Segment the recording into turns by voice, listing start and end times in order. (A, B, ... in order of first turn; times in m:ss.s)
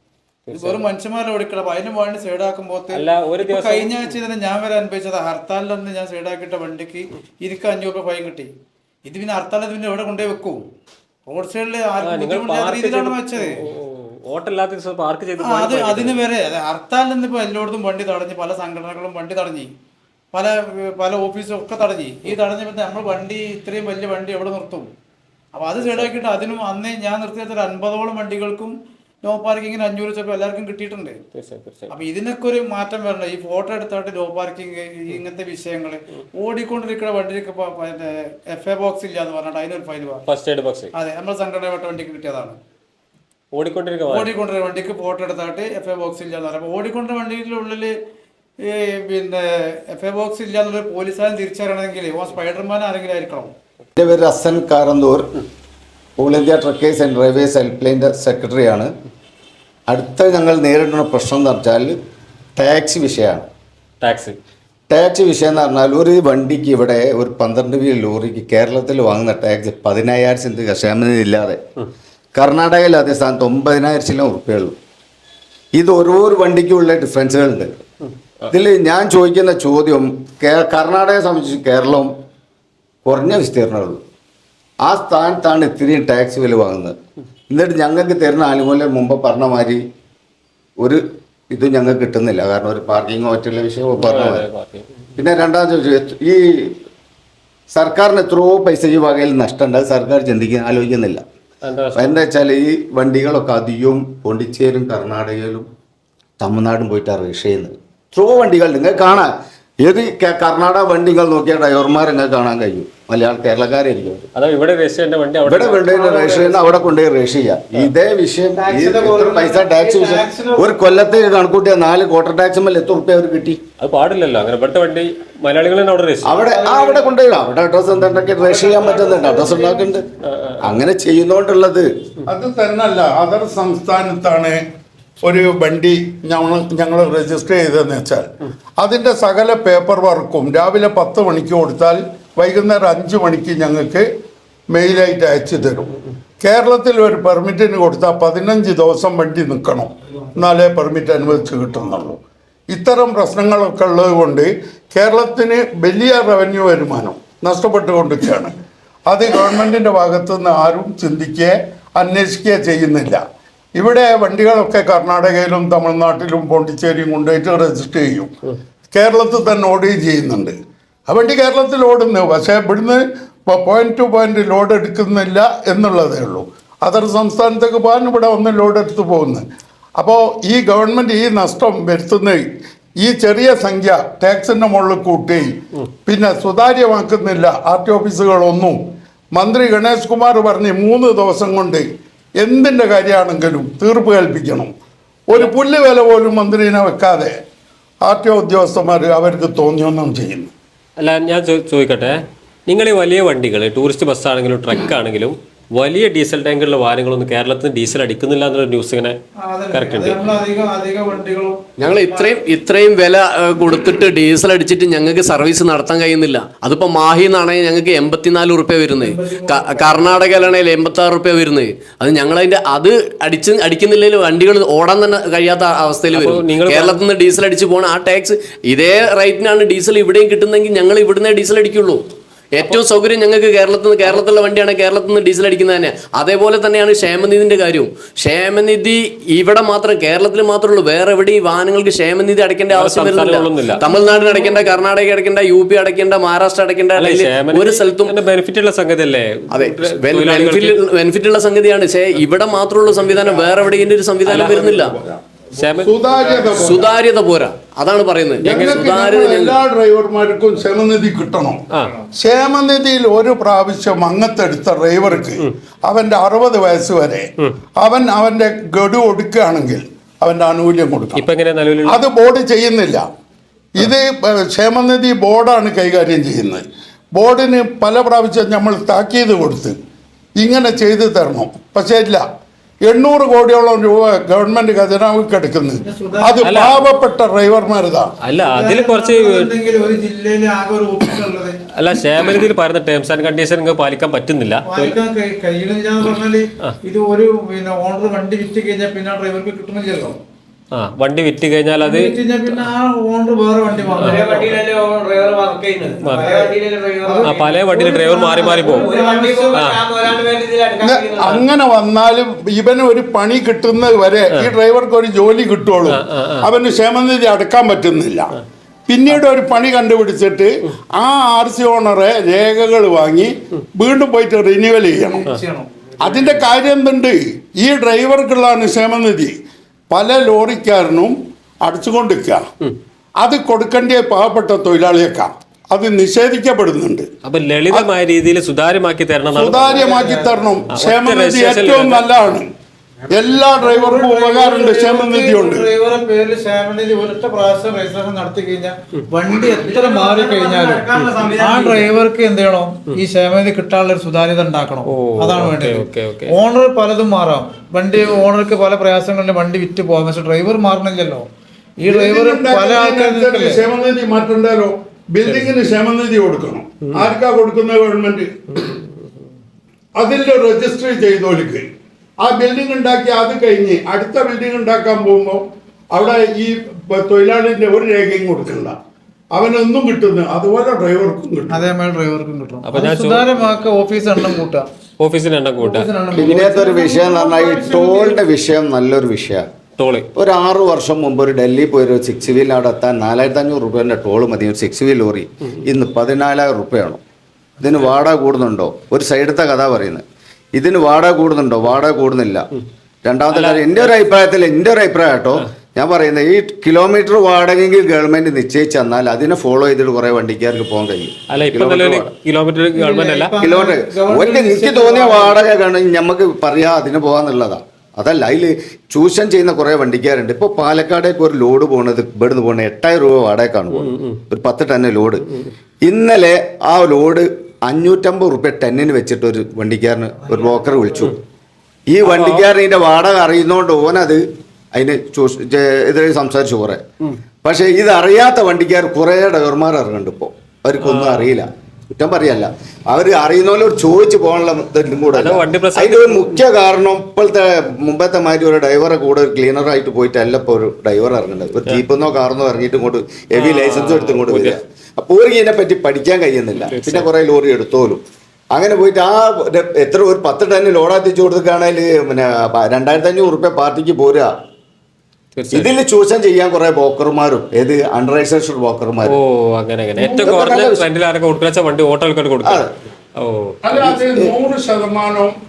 0:00.5-0:00.8 A
0:00.5-0:08.5 B
0:02.9-0:04.1 A
0:09.0-0:10.6 B
0:11.3-0:13.6 B
0:12.0-0:16.2 A
0:15.4-0:19.7 B
0:20.3-0:24.9 B
0:25.5-0:31.2 B
0:25.8-0:26.1 A
0:31.3-0:31.9 A
0:31.9-0:40.2 B
0:40.2-0:40.9 A
0:40.9-0:42.6 B
0:43.5-0:44.3 A
0:44.1-0:48.0 B
0:48.6-0:53.5 B
0:54.0-0:55.3 C
0:56.2-0:58.9 C
0:59.9-1:02.0 C
1:02.6-1:03.5 C
1:04.0-1:04.4 A
1:04.9-1:11.6 C
1:12.3-1:14.8 C
1:15.7-1:17.8 C
1:18.5-1:22.1 C
1:23.0-1:24.0 C
1:24.8-1:27.0 C
1:27.5-1:29.8 C
1:30.8-1:34.4 C
1:34.0-1:34.9 A
1:35.2-1:36.8 C
1:37.7-1:41.2 C
1:41.6-1:42.2 A
1:42.0-1:45.7 C
1:46.4-1:54.2 C
1:54.3-1:55.9 A
1:55.4-2:03.6 C
1:56.0-1:56.8 B
1:58.6-2:00.8 B
1:58.8-1:59.4 D
2:03.8-2:06.4 A
2:06.2-2:10.0 C
2:06.4-2:07.1 D
2:08.4-2:09.8 D
2:08.8-2:09.5 B
2:10.2-2:10.7 A
2:10.6-2:11.9 C
2:12.3-2:14.6 E
2:15.2-2:24.1 E
2:24.7-2:43.2 E
2:43.8-2:48.3 E
2:48.9-2:50.5 E
2:51.1-2:59.4 E
3:00.0-3:02.4 E
3:03.0-3:11.9 E
3:12.4-3:14.7 E
3:15.3-3:17.4 E
3:18.0-3:20.5 E
3:21.0-3:29.2 A
3:29.4-3:32.4 B
3:29.7-3:30.3 A
3:31.8-3:52.0 F
3:39.0-3:40.1 B
3:46.1-3:47.0 A
3:52.6-4:08.1 F
4:02.7-4:03.8 A
4:03.8-4:04.6 B
4:07.0-4:10.8 A
4:09.5-4:15.0 F
4:13.0-4:13.7 E
4:14.2-4:15.2 E
4:15.6-4:15.9 A
4:15.8-4:16.9 E
4:16.5-4:19.6 F
4:18.4-4:31.2 E
4:18.4-4:18.9 A
4:31.2-4:32.0 A
4:31.9-4:33.1 E
4:33.7-4:39.8 E
4:40.4-4:42.2 E
4:42.8-4:48.1 E
4:45.8-4:46.6 B
4:46.4-4:46.7 A
4:48.2-4:49.5 A
4:48.5-4:51.6 B
4:51.8-4:54.9 A
4:54.7-5:00.2 B
5:00.7-5:02.1 A
5:01.8-5:04.6 B
5:03.9-5:07.5 D
5:04.0-5:04.2 A
5:06.0-5:06.3 A
5:06.0-5:09.8 B
5:07.2-5:08.9 A
5:08.3-5:11.4 D
5:10.8-5:18.3 E
5:15.9-5:16.5 A
5:18.9-5:25.3 E
5:24.9-5:26.3 B
5:26.0-5:29.4 E
5:29.9-5:32.4 E
5:33.2-5:37.1 E
5:37.2-5:39.9 A
5:39.3-5:42.5 E
5:39.6-5:40.4 B
5:40.7-5:42.0 A
5:43.1-5:45.7 E
5:43.5-6:01.2 B
5:49.5-5:51.9 D
5:54.9-5:56.3 A
6:01.8-6:03.6 B
6:01.9-6:08.7 E
6:10.0-6:11.6 E
6:12.2-6:18.7 E
6:19.3-6:21.6 E
6:21.5-6:24.7 B
6:22.6-6:23.3 A
6:25.0-6:25.9 A
6:25.6-6:28.2 B
6:26.1-6:29.5 C
6:29.8-6:30.1 A
6:30.1-6:37.0 C
6:37.6-6:40.0 C
6:40.5-6:42.5 C
6:43.0-6:52.1 C
6:43.3-6:44.1 A
6:51.3-6:53.3 A
6:52.8-6:55.4 B
6:53.4-7:05.2 C
7:03.8-7:04.2 A
7:05.8-7:11.2 C
7:11.9-7:16.8 C
7:12.0-7:12.4 A
7:17.4-7:44.3 C
7:20.8-7:21.2 A
7:25.1-7:26.4 A
7:33.3-7:34.6 A
7:36.6-7:37.1 A
7:45.3-7:45.7 A
7:45.5-7:49.2 C
7:49.0-7:52.6 A
7:50.1-7:50.8 C
7:52.4-7:52.7 C
7:53.2-7:53.6 A
7:53.6-7:55.3 E
7:53.9-7:54.3 C